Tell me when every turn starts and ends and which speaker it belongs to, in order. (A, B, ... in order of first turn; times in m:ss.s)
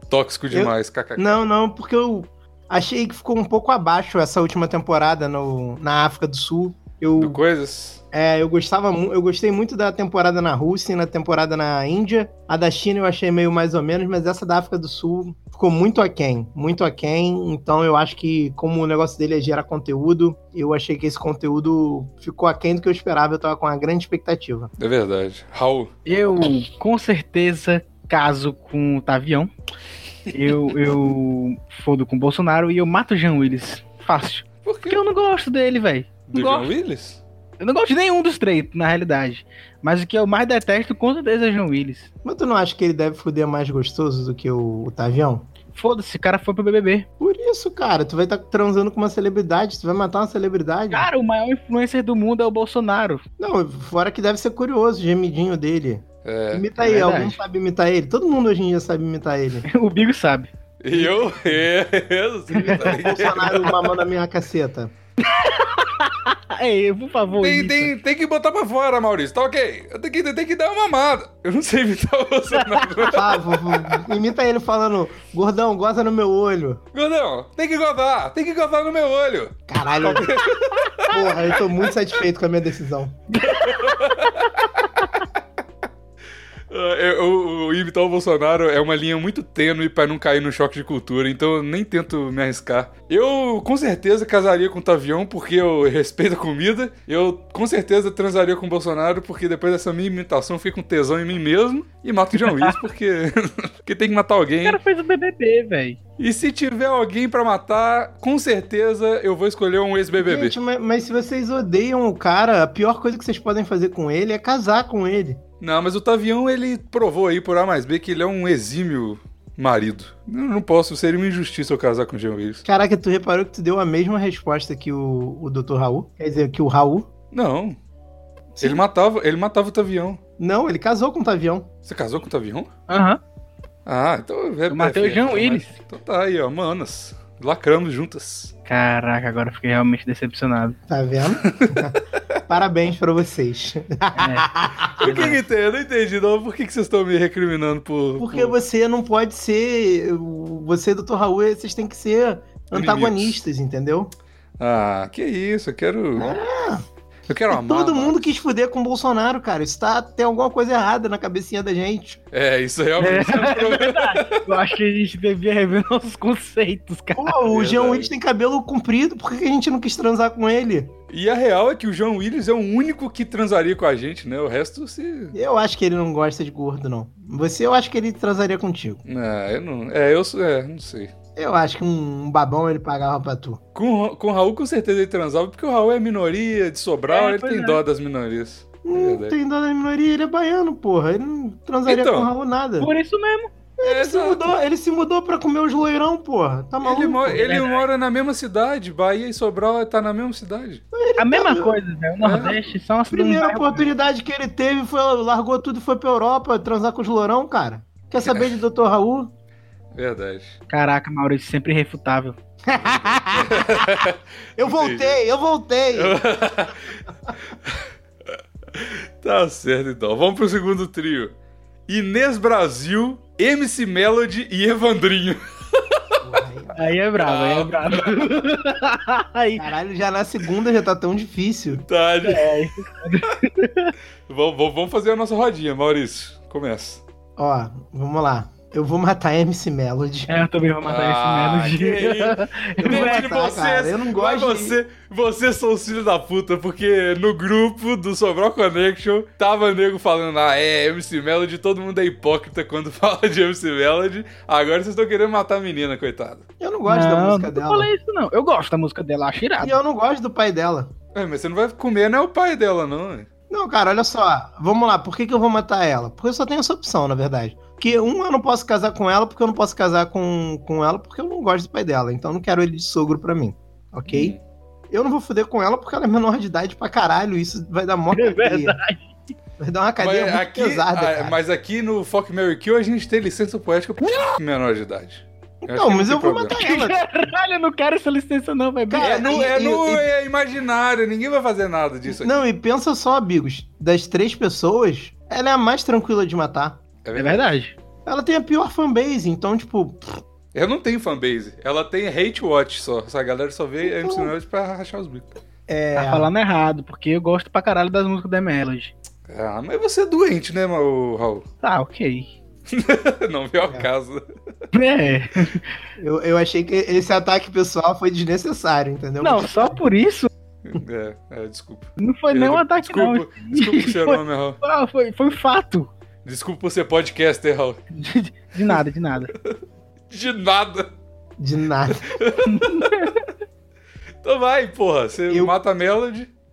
0:00.1-0:01.4 A
0:00.5-0:07.4 B
0:07.2-0:08.0 A
0:08.1-0:24.7 B
0:24.8-0:25.9 A
0:26.1-0:29.5 C
0:30.3-0:36.7 C
0:34.6-0:35.0 A
0:36.3-0:37.2 A
0:37.6-0:42.1 C
0:42.2-0:45.5 B
0:45.8-0:47.1 C
0:47.2-0:51.1 B
0:50.9-0:53.2 C
0:53.4-0:59.7 B
0:56.2-0:56.7 A
0:56.8-0:57.4 C
0:59.7-1:00.5 C
1:00.8-1:03.8 A
1:02.5-1:02.9 C
1:02.8-1:04.9 B
1:05.2-1:07.9 C
1:07.4-1:13.4 A
1:12.6-1:13.0 C
1:13.1-1:16.8 B
1:16.9-1:21.8 A
1:19.7-1:20.4 B
1:21.1-1:23.2 B
1:23.4-1:24.6 A
1:23.4-1:24.5 C
1:26.7-1:44.8 A
1:42.4-1:42.7 C
1:44.6-1:46.0 C
1:46.2-1:50.6 A
1:50.2-1:55.4 B
1:55.6-2:02.6 A
2:02.6-2:07.1 B
2:07.3-2:07.8 A
2:08.6-2:10.2 A
2:10.4-2:11.7 B
2:11.8-2:12.7 A
2:12.9-2:13.2 C
2:13.9-2:18.5 A
2:14.7-2:15.7 C
2:18.7-2:20.8 C
2:20.9-2:25.4 B
2:21.4-2:21.9 A
2:24.2-2:24.5 C
2:25.0-2:28.6 A
2:28.2-2:34.1 B
2:32.7-2:33.4 A
2:34.6-2:36.4 A
2:36.2-2:36.8 B
2:37.3-2:38.2 A
2:37.5-2:42.2 B
2:42.3-2:44.5 A
2:43.0-2:47.4 C
2:47.1-2:50.9 B
2:47.5-2:48.1 A
2:51.1-2:55.4 A
2:55.3-2:59.0 B
2:59.1-3:01.1 A
3:01.4-3:03.6 B
3:03.8-3:09.4 A
3:07.1-3:07.8 C
3:08.8-3:12.9 B
3:11.9-3:12.3 A
3:12.8-3:13.5 C
3:13.8-3:17.5 B
3:13.8-3:14.5 A
3:16.8-3:20.8 A
3:17.4-3:17.8 C
3:20.9-3:21.8 B
3:21.2-3:23.8 C
3:22.2-3:22.6 A
3:23.1-3:29.3 B
3:28.2-3:28.5 A
3:29.9-3:30.6 A
3:30.7-3:32.4 C
3:32.7-3:33.9 B
3:33.3-3:35.2 A
3:34.6-3:36.2 B
3:35.9-3:36.9 A
3:38.8-3:41.3 A
3:41.9-3:46.2 A
3:46.2-3:46.8 B
3:46.8-3:49.6 C
3:47.2-3:48.4 A
3:49.6-3:51.8 B
3:51.8-3:52.6 A
3:52.2-3:53.9 C
3:54.3-3:57.0 A
3:57.4-4:00.4 B
4:00.3-4:03.3 C
4:00.8-4:16.4 A
4:02.8-4:04.8 B
4:16.6-4:17.9 B
4:16.8-4:19.8 C
4:19.6-4:20.9 B
4:21.2-4:23.3 A
4:23.5-4:34.3 B
4:34.1-4:34.4 A
4:34.9-4:38.8 B
4:38.1-4:39.0 C
4:39.6-4:41.4 B
4:40.0-4:46.6 A
4:45.6-4:47.0 B
4:46.6-4:49.4 C
4:48.9-4:50.1 B
4:49.0-4:52.4 A
4:52.1-4:56.8 B
4:57.0-4:57.5 A
4:57.2-4:57.8 C
4:58.1-5:00.2 B
5:00.5-5:05.3 A
5:03.8-5:04.3 B
5:05.7-5:06.3 B
5:05.9-5:08.9 C
5:09.3-5:11.4 A
5:11.6-5:12.3 C
5:12.7-5:14.3 A
5:14.7-5:15.7 C
5:16.0-5:19.8 B
5:19.2-5:20.3 C
5:20.7-5:24.6 A
5:22.0-5:25.9 C
5:26.2-5:27.8 A
5:27.9-5:29.3 C
5:30.1-5:30.9 A
5:31.4-5:32.2 B
5:32.1-5:33.2 A
5:32.4-5:33.2 C
5:34.2-5:36.3 A
5:35.3-5:35.6 B